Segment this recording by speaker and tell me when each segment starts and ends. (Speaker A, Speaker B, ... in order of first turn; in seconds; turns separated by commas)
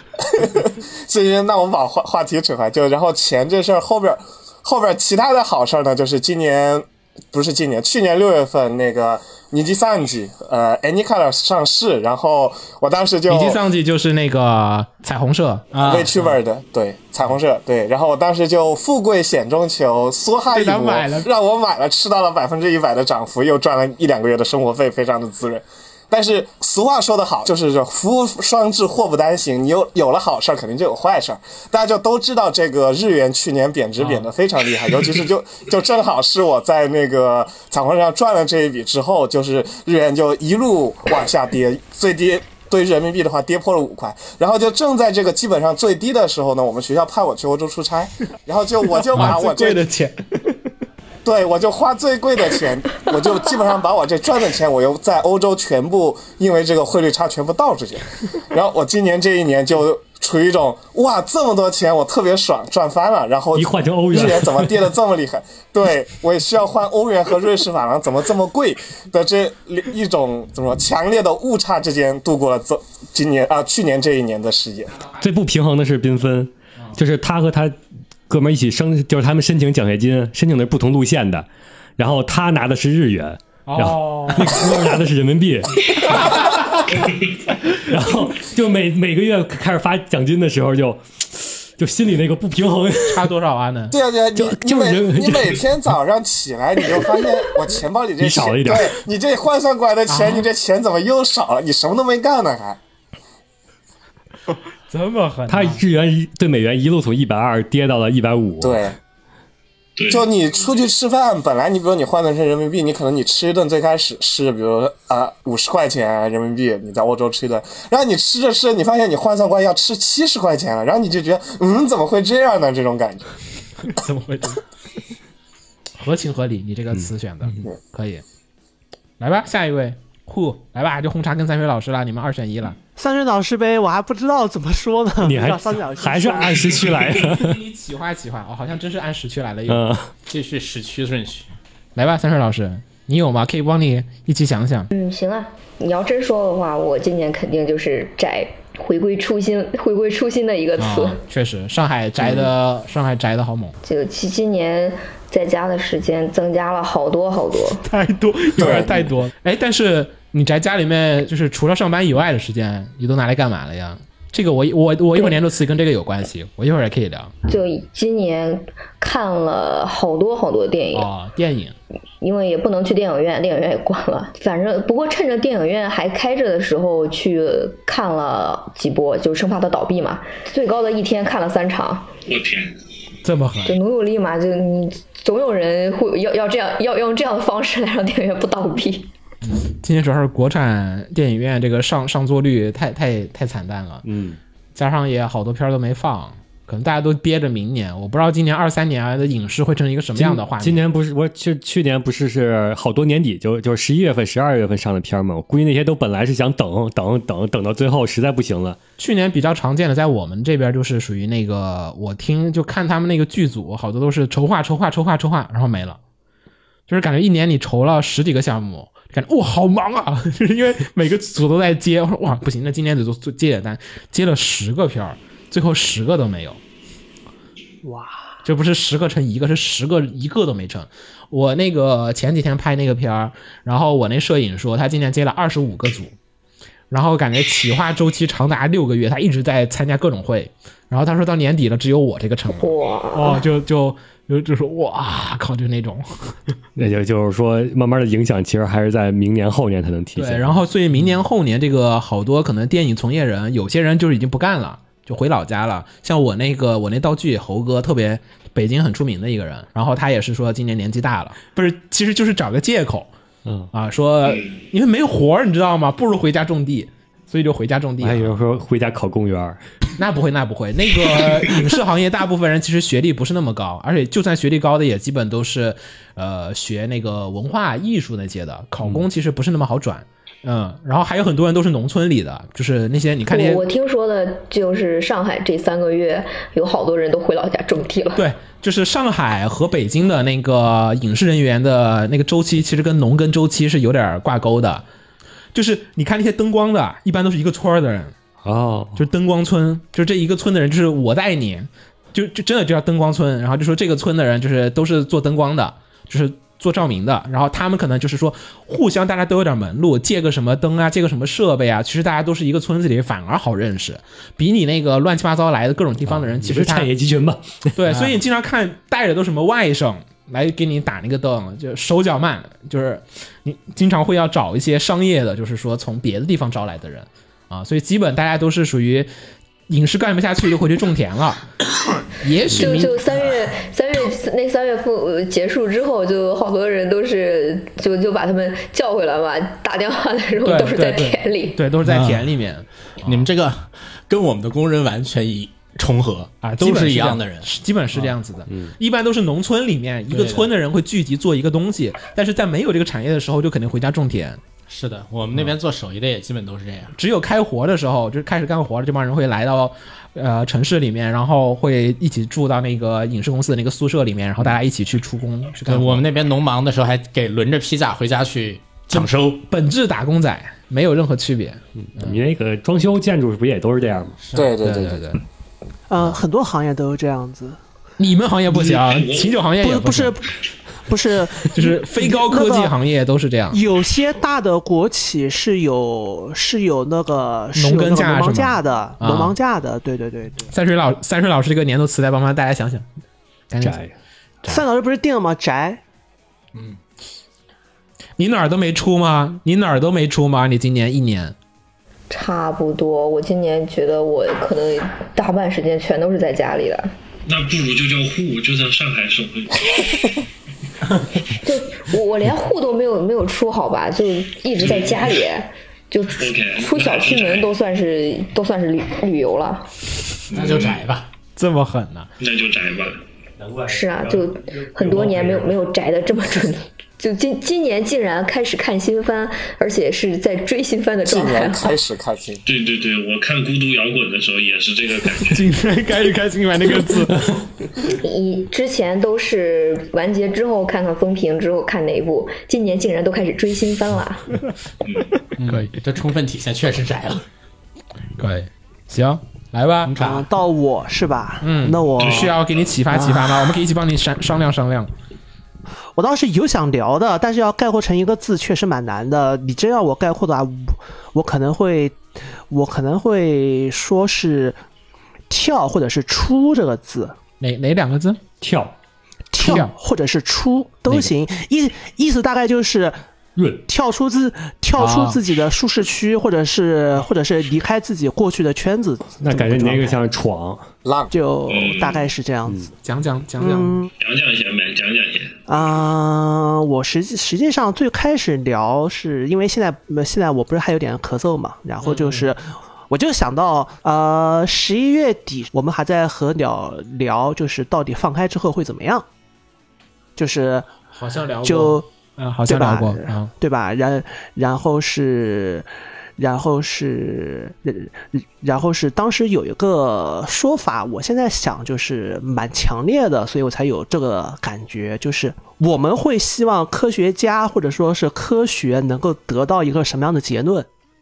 Speaker A: 0.2-13.6, Speaker B: 13.3-15.7, Speaker C: 15.7-16.2, Speaker A: 15.8-49.9, Speaker B: 20.5-21.3, Speaker B: 49.1-50.1, Speaker A: 51.2-75.0, Speaker D: 63.5-64.8, Speaker D: 75.2-77.8, Speaker D: 78.3-81.5, Speaker D: 82.0-87.0, Speaker B: 83.7-84.6, Speaker B: 86.0-86.7, Speaker D: 87.7-93.3, Speaker B: 93.1-94.0, Speaker A: 93.9-102.8, Speaker D: 94.3-95.6, Speaker D: 98.2-99.0, Speaker B: 100.1-100.5, Speaker B: 104.9-105.8, Speaker D: 105.5-108.8, Speaker A: 108.6-109.0, Speaker E: 110.0-110.3, Speaker A: 110.1-123.3, Speaker B: 123.9-124.6, Speaker B: 126.0-128.2, Speaker B: 129.2-132.8, Speaker F: 133.0-137.0, Speaker D: 135.2-137.6, Speaker B: 137.2-139.8, Speaker D: 139.7-140.1, Speaker C: 140.3-141.5, Speaker B: 142.0-144.9, Speaker G: 144.9-151.2, Speaker B: 150.8-153.8, Speaker G: 153.8-157.8, Speaker B: 157.8-167.3, Speaker A: 158.6-159.1, Speaker G: 167.5-171.1, Speaker B: 170.9-171.8, Speaker G: 172.2-182.1, Speaker E: 182.3-182.7, Speaker B: 183.2-183.8, Speaker G: 183.7-189.1, Speaker B: 189.4-194.1, Speaker D: 194.0-194.4, Speaker B: 194.8-200.9, Speaker D: 200.2-208.8, Speaker B: 209.0-216.0, Speaker B: 216.9-226.6, Speaker F: 227.8-228.2, Speaker B: 228.4-236.2, Speaker B: 236.9-246.4, Speaker G: 242.6-243.4, Speaker D: 246.8-251.2, Speaker B: 250.2-263.1, Speaker D: 263.4-263.7, Speaker B: 263.7-268.4, Speaker D: 268.0-269.6, Speaker B: 270.0-283.6, Speaker G: 283.3-288.2, Speaker B: 288.1-294.9, Speaker B: 295.5-298.1, Speaker D: 298.4-299.1, Speaker B: 298.9-316.9, Speaker D: 316.1-317.8, Speaker B: 317.8-329.1, Speaker B: 329.7-331.4, Speaker B: 332.2-333.0, Speaker G: 332.6-341.6, Speaker B: 340.4-343.2, Speaker C: 341.8-342.3, Speaker C: 343.0-347.5, Speaker B: 346.4-354.4, Speaker C: 350.1-350.5, Speaker C: 354.7-356.9, Speaker B: 356.9-366.1, Speaker C: 365.7-369.4, Speaker B: 368.9-372.2, Speaker D: 371.8-374.2, Speaker C: 374.2-374.5, Speaker A: 374.3-375.0, Speaker B: 374.6-375.2, Speaker F: 375.9-377.6, Speaker B: 378.0-380.1, Speaker E: 378.7-379.4, Speaker F: 379.6-382.7, Speaker B: 381.5-383.6, Speaker F: 383.5-390.5, Speaker B: 387.6-389.3, Speaker B: 390.5-392.9, Speaker B: 393.5-393.8, Speaker D: 393.6-393.9, Speaker F: 394.5-395.8, Speaker B: 398.2-401.3, Speaker G: 402.1-406.9, Speaker E: 407.3-410.1, Speaker G: 411.4-419.7, Speaker E: 414.6-415.2, Speaker E: 416.2-417.5, Speaker C: 420.3-421.1, Speaker E: 420.3-420.8, Speaker B: 421.4-422.1, Speaker E: 422.2-423.0, Speaker D: 423.4-425.6, Speaker G: 423.7-431.8, Speaker A: 431.0-432.4, Speaker E: 432.5-435.5, Speaker B: 435.3-437.2, Speaker G: 437.9-444.3, Speaker E: 444.8-445.1, Speaker C: 445.4-447.2, Speaker B: 448.2-449.9, Speaker C: 449.9-450.3, Speaker F: 450.0-452.4, Speaker B: 451.4-454.9, Speaker E: 452.0-452.4, Speaker F: 452.9-453.4, Speaker F: 456.0-464.6, Speaker F: 465.3-467.2, Speaker B: 467.4-468.2, Speaker D: 468.4-468.7, Speaker F: 469.3-472.9, Speaker B: 469.4-469.7, Speaker D: 473.4-473.6, Speaker F: 473.7-480.0, Speaker B: 474.8-475.2, Speaker D: 479.2-480.7, Speaker A: 480.9-481.1, Speaker F: 481.1-482.7, Speaker E: 481.5-482.1, Speaker B: 482.8-483.8, Speaker F: 483.4-483.9, Speaker E: 484.0-485.4, Speaker F: 485.5-499.1, Speaker B: 491.8-492.3, Speaker F: 500.2-500.7, Speaker B: 500.9-503.3, Speaker F: 501.4-501.9, Speaker F: 502.5-520.7